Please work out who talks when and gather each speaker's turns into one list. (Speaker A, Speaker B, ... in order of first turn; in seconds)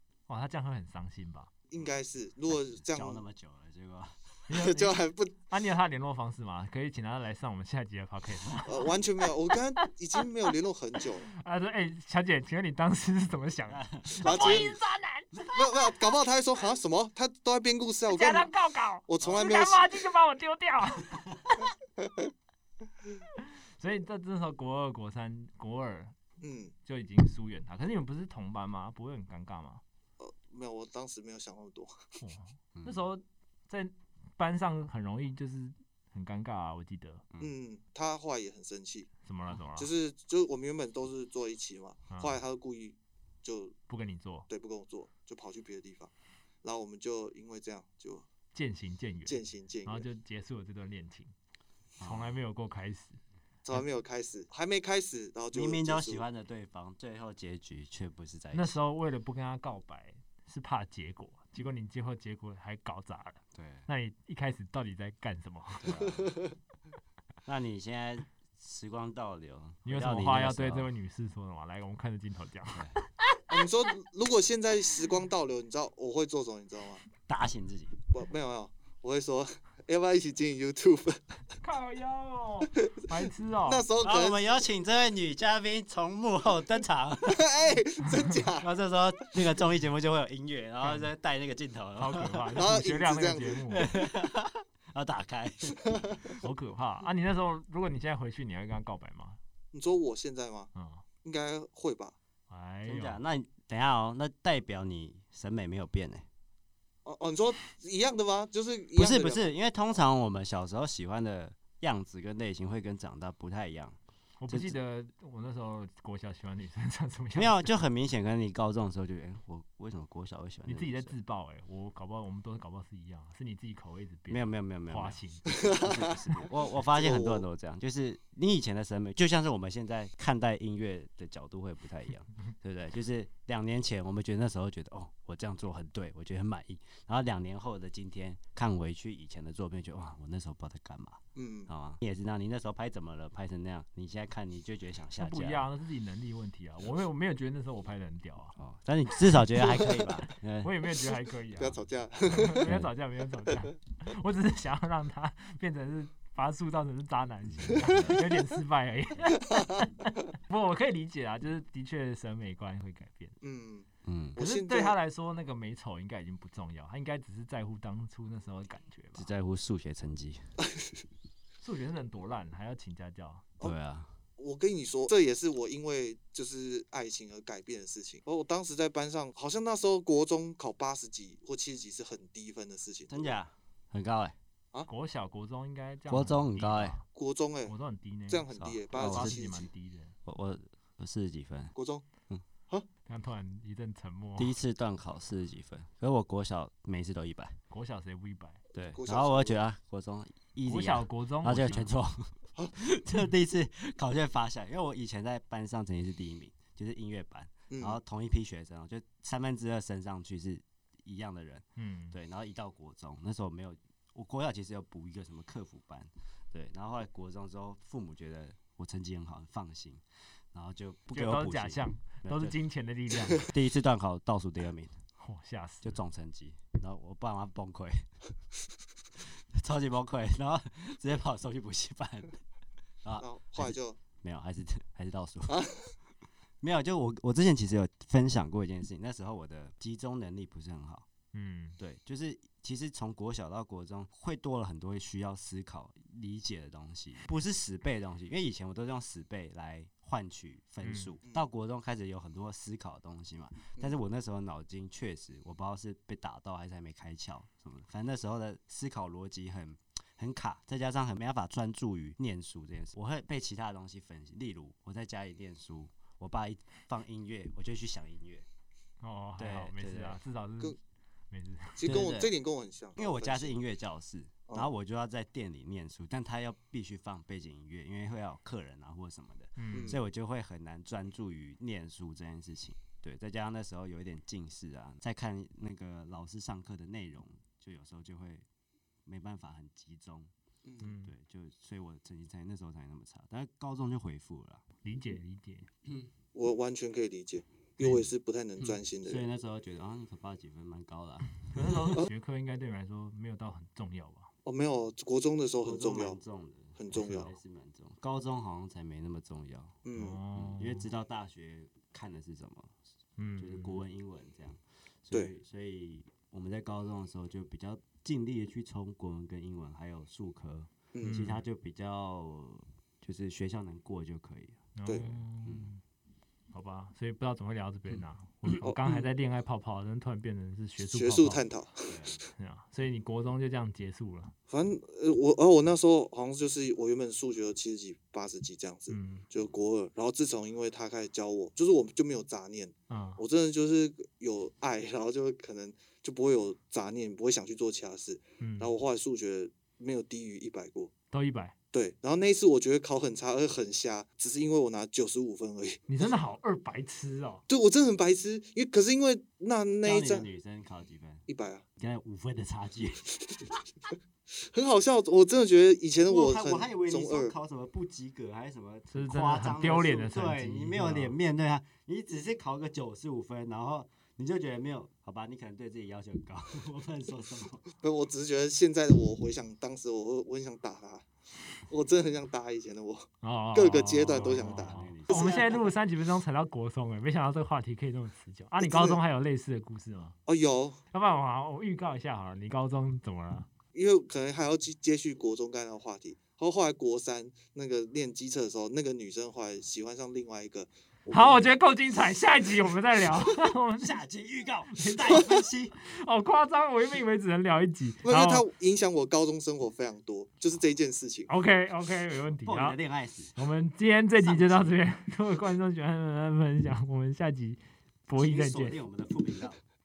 Speaker A: 0.3-1.5, 4.5-5.0, 5.5-9.3, 9.8-10.2, 11.3-15.3, 18.1-21.7, 23.8-26.1, 26.8-29.8, 32.2-37.2, 39.2-39.9, 42.1-42.4, 43.9-44.5, 48.5-51.3, 52.0-53.2, 58.5-66.0, 69.8-72.8, 81.6-83.8, 90.8-91.1, 92.0-93.9, 96.4-99.4, 100.7-101.0, 102.5-103.2, 114.4-117.8, 120.7-125.5, 145.2-148.6, 149.5-163.3, 164.4-169.3, 171.6-173.5, 184.9-187.0, 187.7-190.1, 193.1-194.6, 197.7-198.6, 200.7-201.9, 211.8-212.2, 221.1-223.5, 225.2-226.0, 241.3-241.8, 250.8-251.1, 269.0-270.8, 271.3-271.8, 279.6-279.9, 290.8-291.1, 294.8-295.7, 301.5-304.3, 309.9-310.9, 313.2-313.8, 321.0-321.4, 324.7-325.8, 326.5-331.4, 332.4-334.3, 338.9-339.2, 342.9-343.2, 348.4-348.7, 351.1-351.5, 355.9-357.4, 368.9-371.1, 383.2-390.1, 390.9-393.5, 401.1-404.0, 404.8-408.4, 411.3-412.8, 413.4-418.8
Speaker B: 1.7-3.2, 4.5-5.3, 8.6-11.3, 14.2-14.7, 15.5-18.5, 19.1-20.1, 22.0-22.3, 26.4-26.7, 30.2-32.1, 37.4-39.1, 39.8-43.7, 44.5-46.1, 46.6-48.2, 49.2-50.1, 53.6-56.2, 73.5-77.0, 78.1-81.4, 82.8-84.4, 87.2-88.7, 92.5-93.7, 95.8-96.2, 99.7-100.7, 101.2-102.1, 107.0-109.5, 125.5-126.4, 126.9-127.4, 141.3-141.7, 151.6-152.7, 159.3-159.9, 163.4-164.9, 174.4-183.3, 187.1-187.7, 188.3-189.7, 191.7-192.1, 198.9-199.6, 207.7-208.0, 233.2-234.0, 235.5-235.9, 271.8-273.6, 279.7-280.0, 290.6-290.9, 296.3-299.2, 304.4-306.2, 306.8-307.3, 309.8-310.2, 320.9-321.2, 324.9-325.1, 328.6-329.0, 330.8-332.0, 334.5-350.9, 351.7-356.1, 357.5-360.3, 361.3-361.6, 364.4-367.3, 377.8-381.1, 381.7-385.7, 388.6-389.0, 390.3-390.8, 393.7-401.5, 408.0-411.3
Speaker C: 2.5-4.4, 13.7-14.8, 15.3-15.9, 32.7-33.1, 52.0-52.4, 55.5-58.8, 63.5-63.9, 65.8-66.4, 67.5-70.9, 72.7-73.0, 77.3-77.9, 84.0-87.4, 88.6-92.6, 93.7-95.9, 102.8-106.3, 109.0-114.0, 114.5-114.7, 117.3-121.1, 124.3-145.7, 148.6-150.7, 152.6-152.9, 157.6-158.2, 164.0-164.4, 169.2-170.5, 173.6-174.1, 183.1-184.3, 186.1-186.9, 188.5-189.4, 190.2-191.7, 194.4-197.6, 198.7-222.6, 223.3-225.0, 225.8-228.0, 229.2-232.4, 233.0-235.6, 236.6-241.1, 241.8-268.4, 269.4-270.2, 271.8-272.3, 273.0-288.4, 289.1-290.3, 291.1-294.6, 298.6-301.9, 305.6-309.8, 310.3-312.8, 313.4-324.6, 325.4-325.7, 331.9-332.2, 359.8-361.2, 361.8-363.6, 366.1-377.6, 384.2-385.6, 403.8-405.7, 412.4-413.4, 414.2-414.7, 418.2-419.6